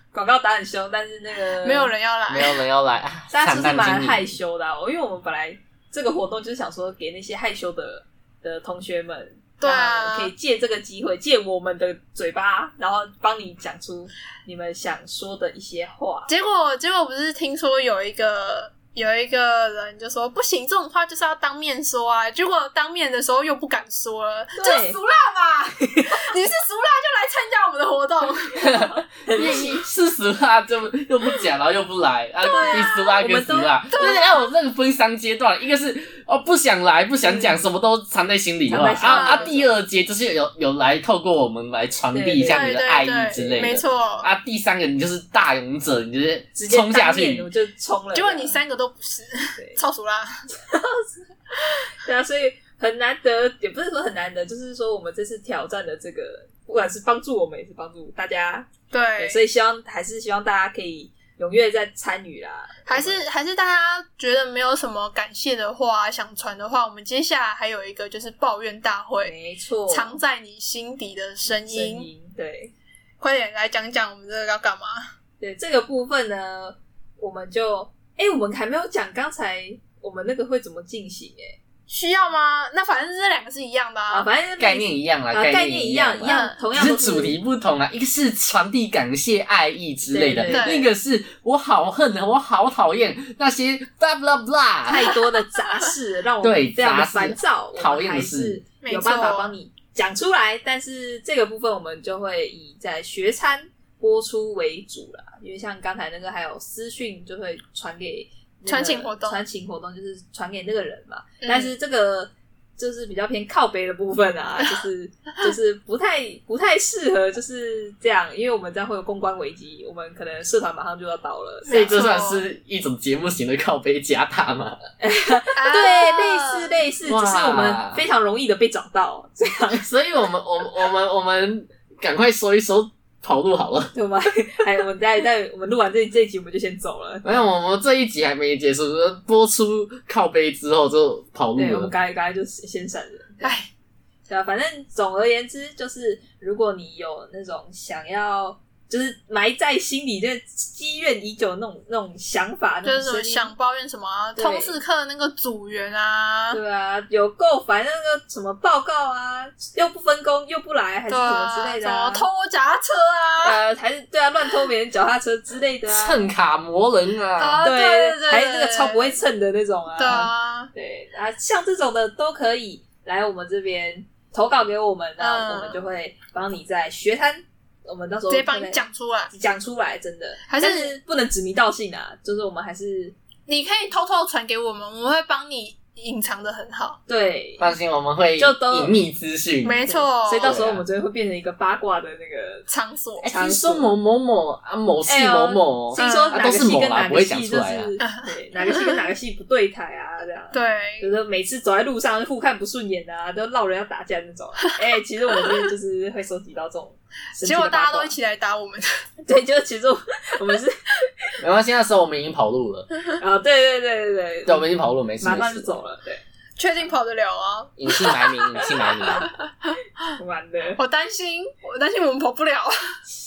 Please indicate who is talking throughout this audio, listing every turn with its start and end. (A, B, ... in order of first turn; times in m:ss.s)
0:00.1-0:01.9 A
0:01.6-0:02.6 B
0:02.3-0:04.3 C
0:03.3-0:16.3 A
0:09.6-0:10.3 B
0:16.3-0:28.7 B
0:24.6-0:25.0 A
0:28.6-0:29.8 A
0:28.7-0:47.5 C
0:29.4-0:29.8 B
0:32.4-0:33.2 B
0:32.4-0:34.2 A
0:33.9-0:34.4 B
0:37.3-0:37.5 B
0:38.7-0:39.7 A
0:39.0-0:39.6 B
0:42.1-0:42.8 A
0:42.5-0:44.3 B
0:46.6-0:48.6 A
0:48.1-0:50.3 B
0:49.6-0:49.8 A
0:50.5-0:58.7 A
0:58.9-0:59.4 B
0:59.2-1:03.2 A
1:02.9-1:09.3 B
1:09.2-1:10.2 A
1:09.9-1:12.1 B
1:11.7-1:12.7 A
1:13.2-1:15.0 B
1:15.4-1:21.6 A
1:21.9-1:24.3 B
1:24.1-1:27.4 A
1:24.6-1:35.1 C
1:26.2-1:26.8 B
1:30.1-1:30.9 A
1:30.5-1:30.9 B
1:34.9-2:02.1 A
1:36.4-1:38.6 C
1:38.8-1:39.6 B
1:48.7-1:49.4 B
1:51.4-1:51.7 B
2:01.6-2:02.5 B
2:01.7-2:04.8 C
2:05.0-2:09.9 A
2:05.6-2:06.8 B
2:07.1-2:08.0 C
2:09.8-2:13.9 C
2:13.9-2:17.4 A
2:17.2-2:21.9 C
2:21.6-2:23.6 A
2:23.4-2:23.7 B
2:24.3-2:33.5 A
2:32.8-2:36.6 B
2:34.4-2:34.8 A
2:36.5-2:42.3 A
2:41.1-2:43.6 B
2:43.4-2:46.3 A
2:45.9-2:47.6 C
2:47.4-2:49.2 B
2:47.6-3:03.2 A
2:50.0-2:50.7 B
2:55.2-2:55.8 B
2:58.3-2:59.3 B
3:00.5-3:01.0 B
3:03.5-3:07.0 B
3:07.1-3:07.7 A
3:07.6-3:09.8 C
3:08.4-3:09.0 A
3:09.6-3:10.7 B
3:09.8-3:12.7 A
3:10.4-3:10.8 C
3:12.7-3:13.3 B
3:13.2-3:17.9 C
3:13.2-3:13.9 A
3:15.0-3:28.1 A
3:16.0-3:16.5 B
3:18.0-3:19.1 B
3:20.5-3:21.1 B
3:27.4-3:29.0 B
3:29.2-3:31.3 A
3:31.4-3:32.9 C
3:33.2-3:36.2 A
3:34.5-3:35.8 C
3:36.6-3:38.4 B
3:37.8-3:39.3 C
3:40.1-3:40.8 A
3:40.8-3:42.7 B